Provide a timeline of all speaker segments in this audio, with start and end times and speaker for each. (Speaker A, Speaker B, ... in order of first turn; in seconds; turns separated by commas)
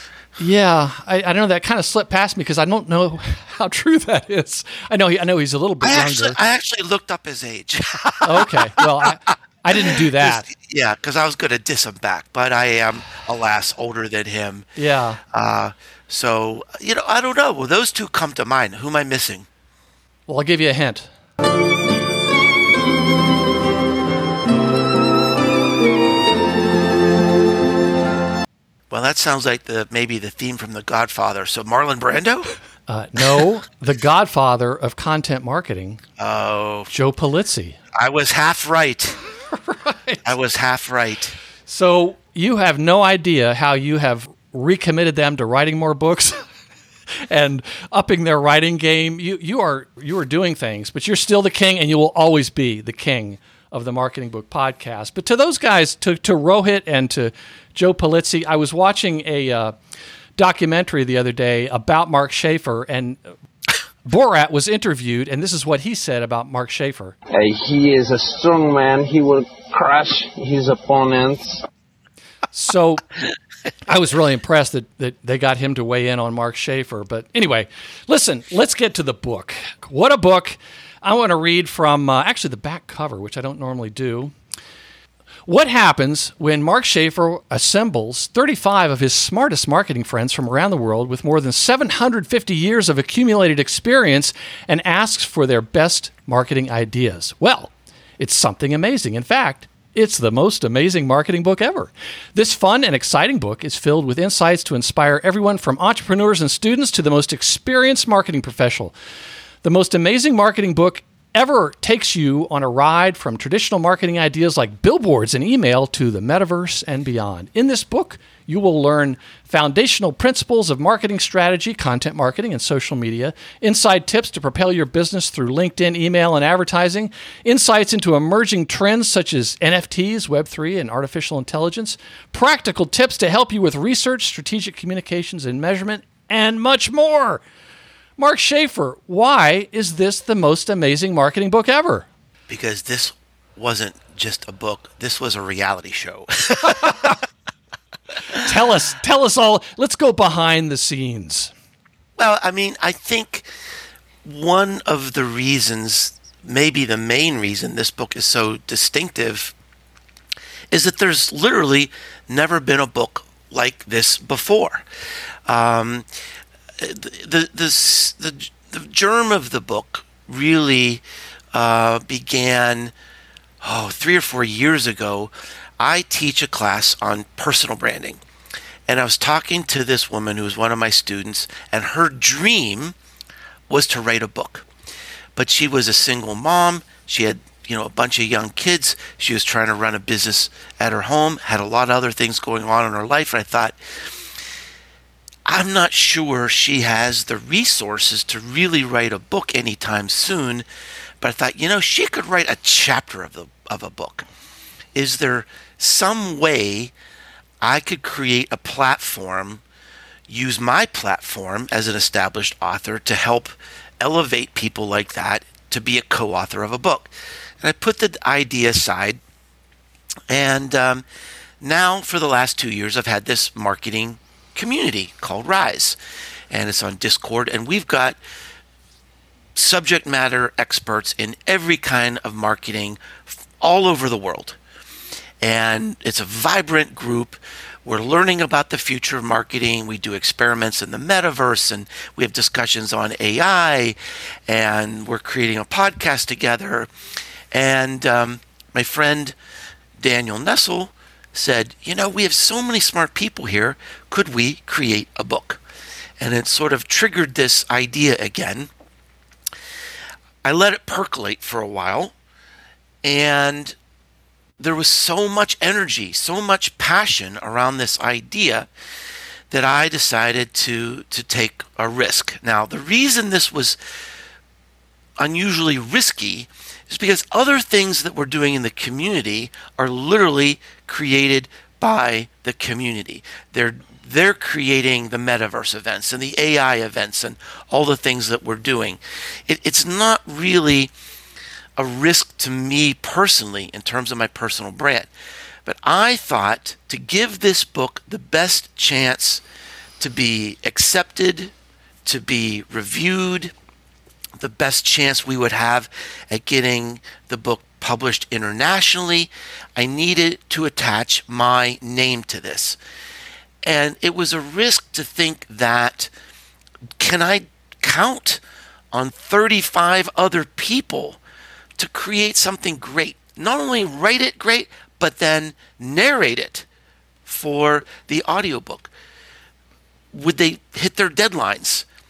Speaker A: 0.4-6.4, Speaker B: 5.8-8.8, Speaker A: 8.2-10.5, Speaker B: 10.0-14.7, Speaker A: 14.8-15.2, Speaker B: 15.3-19.5, Speaker A: 20.3-21.1, Speaker B: 28.9-32.5, Speaker A: 32.9-36.0, Speaker B: 36.2-36.9, Speaker A: 36.9-37.8, Speaker B: 38.0-39.2, Speaker A: 39.7-40.3, Speaker B: 40.2-41.4, Speaker A: 41.7-46.4, Speaker A: 47.3-59.7, Speaker A: 60.4-63.2, Speaker A: 64.1-67.2, Speaker C: 67.3-71.6, Speaker A: 72.5-73.0, Speaker A: 73.9-84.3, Speaker A: 85.5-109.0, Speaker A: 109.6-137.4, Speaker A: 138.2-142.1, Speaker B: 142.5-147.2, Speaker A: 148.4-151.5, Speaker B: 152.2-153.5, Speaker B: 154.2-159.5, Speaker B: 160.7-164.8, Speaker B: 165.5-166.1, Speaker B: 166.8-171.0, Speaker B: 171.5-172.9, Speaker B: 173.6-178.2, Speaker B: 178.9-182.9, Speaker B: 183.7-184.7, Speaker B: 185.4-193.8, Speaker B: 195.5-200.7, Speaker B: 201.2-204.3, Speaker B: 204.9-206.9, Speaker B: 207.6-209.6, Speaker B: 210.3-219.2, Speaker B: 220.3-221.1, Speaker B: 221.6-226.0, Speaker B: 226.5-228.2, Speaker B: 229.6-234.6, Speaker B: 235.4-246.9, Speaker B: 247.5-249.4, Speaker B: 250.0-255.6, Speaker B: 256.2-258.7, Speaker B: 260.4-262.1, Speaker B: 263.0-263.8, Speaker B: 264.6-268.7, Speaker B: 269.5-273.8, Speaker B: 275.2-290.9, Speaker B: 291.8-295.1, Speaker B: 295.7-299.4, Speaker B: 300.0-301.5, Speaker B: 302.1-303.5, Speaker B: 304.4-312.8, Speaker B: 313.6-316.1, Speaker B: 317.0-318.4, Speaker B: 318.9-321.2, Speaker B: 321.8-326.7, Speaker B: 327.3-328.9, Speaker B: 330.1-331.9